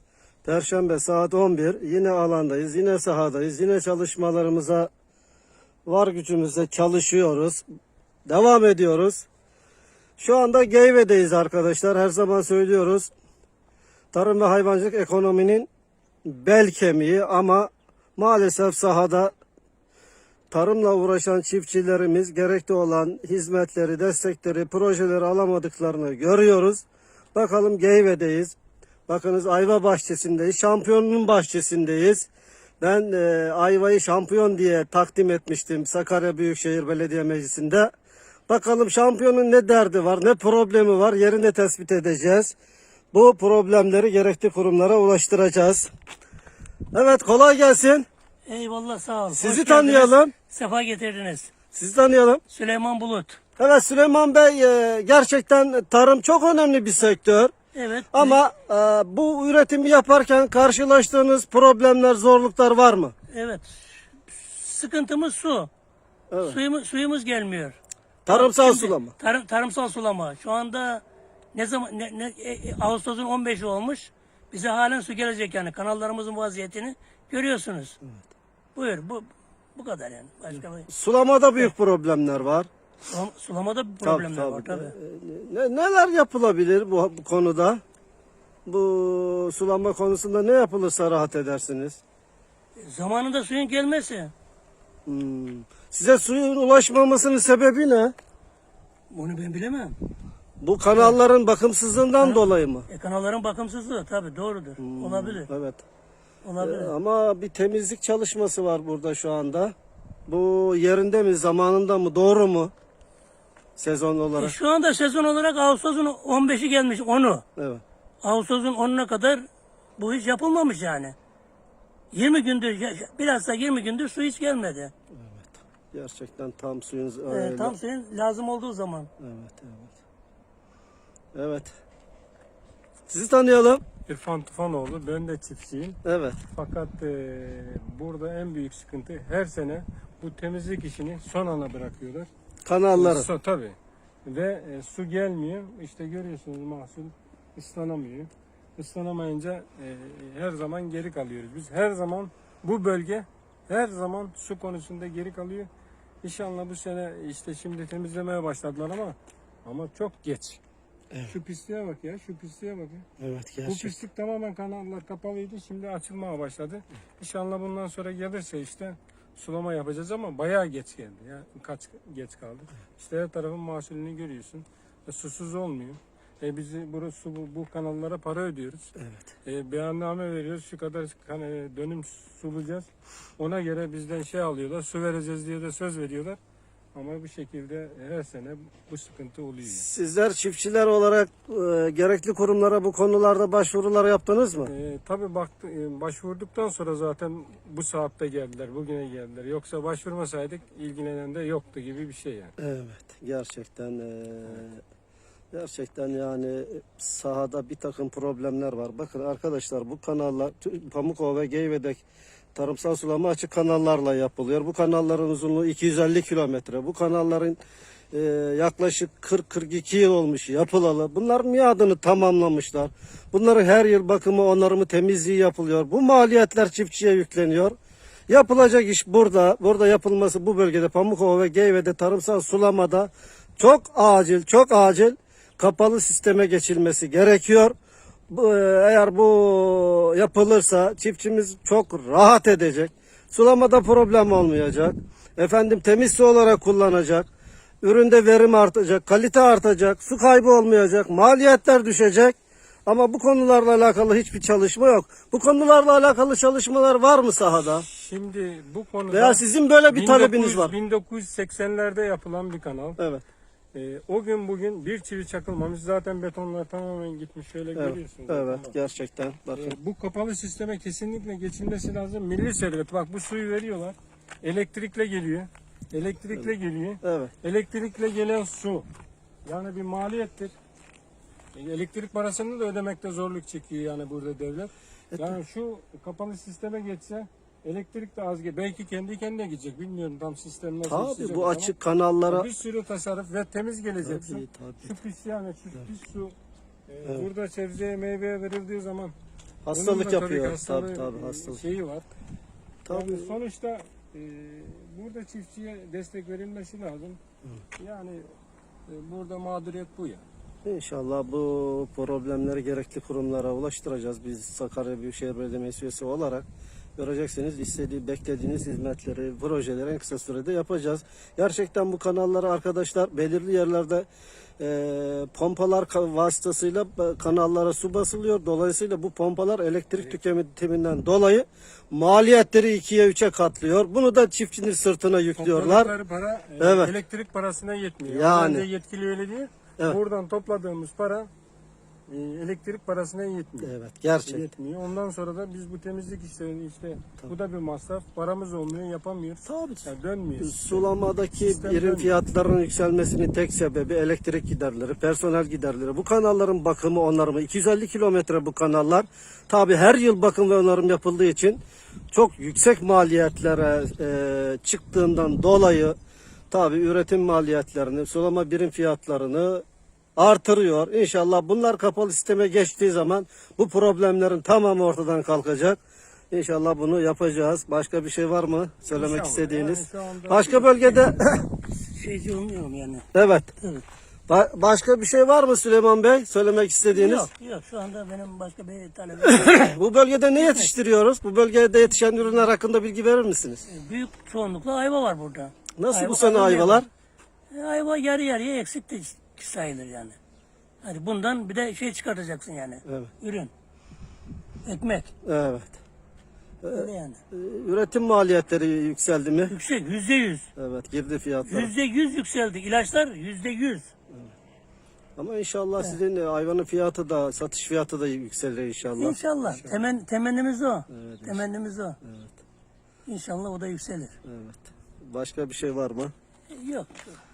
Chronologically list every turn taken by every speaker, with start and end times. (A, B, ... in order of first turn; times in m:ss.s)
0:00.4-0:04.9 A
0:05.8-0:07.6 A
0:08.2-0:09.2 A
0:10.2-0:13.1 A
0:14.1-0:15.7 A
0:16.2-0:19.3 A
0:20.5-0:28.6 A
0:29.1-0:32.3 A
0:32.8-0:37.9 A
0:38.5-0:42.6 A
0:43.1-0:45.9 A
0:46.9-0:48.0 A
0:48.4-0:51.5 B
0:49.3-0:50.3 A
0:51.7-0:52.4 A
0:52.5-0:53.4 B
0:53.6-0:57.5 A
0:57.7-0:58.4 B
0:58.1-1:03.1 A
1:03.3-1:05.7 B
1:06.3-1:06.6 A
1:06.4-1:07.8 B
1:08.2-1:09.1 A
1:08.3-1:18.0 B
1:18.7-1:20.9 B
1:20.9-1:22.7 A
1:23.1-1:24.9 B
1:24.0-1:27.8 A
1:28.6-1:32.0 A
1:32.8-1:34.3 B
1:35.0-1:38.1 A
1:39.1-1:40.0 B
1:40.6-1:42.9 A
1:42.2-1:45.5 B
1:44.8-1:45.8 A
1:46.4-1:46.9 B
1:46.6-1:49.7 A
1:50.3-1:52.7 A
1:53.8-1:54.6 A
1:54.4-1:57.4 B
1:57.6-1:57.8 A
1:58.2-2:01.1 B
2:02.1-2:04.9 B
2:05.1-2:07.8 A
2:07.3-2:09.1 B
2:09.2-2:09.9 A
2:11.3-2:11.7 A
2:13.1-2:13.8 A
2:14.1-2:16.0 C
2:16.0-2:16.4 A
2:16.5-2:22.3 C
2:22.6-2:23.3 A
2:22.9-2:35.7 C
2:36.2-2:40.6 C
2:41.3-2:43.0 C
2:43.2-2:44.0 A
2:43.6-2:58.9 C
2:59.0-2:59.3 A
2:59.4-3:06.4 C
3:06.9-3:09.8 C
3:09.6-3:14.7 A
3:14.6-3:22.5 C
3:22.6-3:24.8 A
3:25.5-3:32.0 A
3:32.5-3:37.6 A
3:38.1-3:47.8 A
3:48.3-3:57.7 A
3:58.3-4:07.3 A
4:07.8-4:17.8 A
4:17.7-4:23.0 C
4:19.1-4:20.7 A
4:23.7-4:28.7 C
4:27.7-4:29.7 A
4:29.5-4:38.9 C
4:37.0-4:37.3 A
4:39.4-4:40.5 C
4:41.5-4:51.7 C
4:50.8-4:52.5 A
4:52.3-4:56.3 C
4:54.0-4:55.0 A
4:56.9-4:59.2 C
4:59.6-5:01.7 A
4:59.7-5:02.1 C
5:02.8-5:03.3 A
5:02.9-5:07.2 C
5:07.8-5:08.2 C
5:08.9-5:10.2 C
5:10.6-5:24.1 A
5:24.6-5:35.9 A
5:35.3-5:41.3 C
5:36.6-5:37.0 A
5:38.0-5:38.6 A
5:42.1-5:43.7 C
5:43.6-5:44.4 A
5:44.2-5:52.2 C
5:49.4-6:01.6 A
6:02.1-6:06.0 A
6:06.5-6:09.6 A
6:10.2-6:15.8 A
6:16.3-6:21.4 A
6:18.9-6:21.3 C
6:21.8-6:23.0 B
6:23.1-6:23.5 A
6:24.3-6:27.3 A
6:26.8-6:29.8 B
6:29.2-6:33.6 A
6:30.3-6:30.7 B
6:33.7-6:36.8 B
6:35.8-6:36.9 A
6:37.5-6:40.2 B
6:40.8-6:43.5 B
6:42.8-6:43.1 A
6:44.6-6:45.1 B
6:45.2-6:45.8 A
6:46.6-6:49.5 A
6:46.7-6:47.2 B
6:49.5-6:50.5 B
6:50.6-6:51.7 A
6:51.4-6:53.9 B
6:55.2-6:59.2 A
6:59.0-7:02.0 B
6:59.5-6:59.8 C
7:00.9-7:01.4 A
7:02.0-7:02.4 A
7:03.1-7:04.1 B
7:04.2-7:06.1 A
7:06.5-7:07.2 B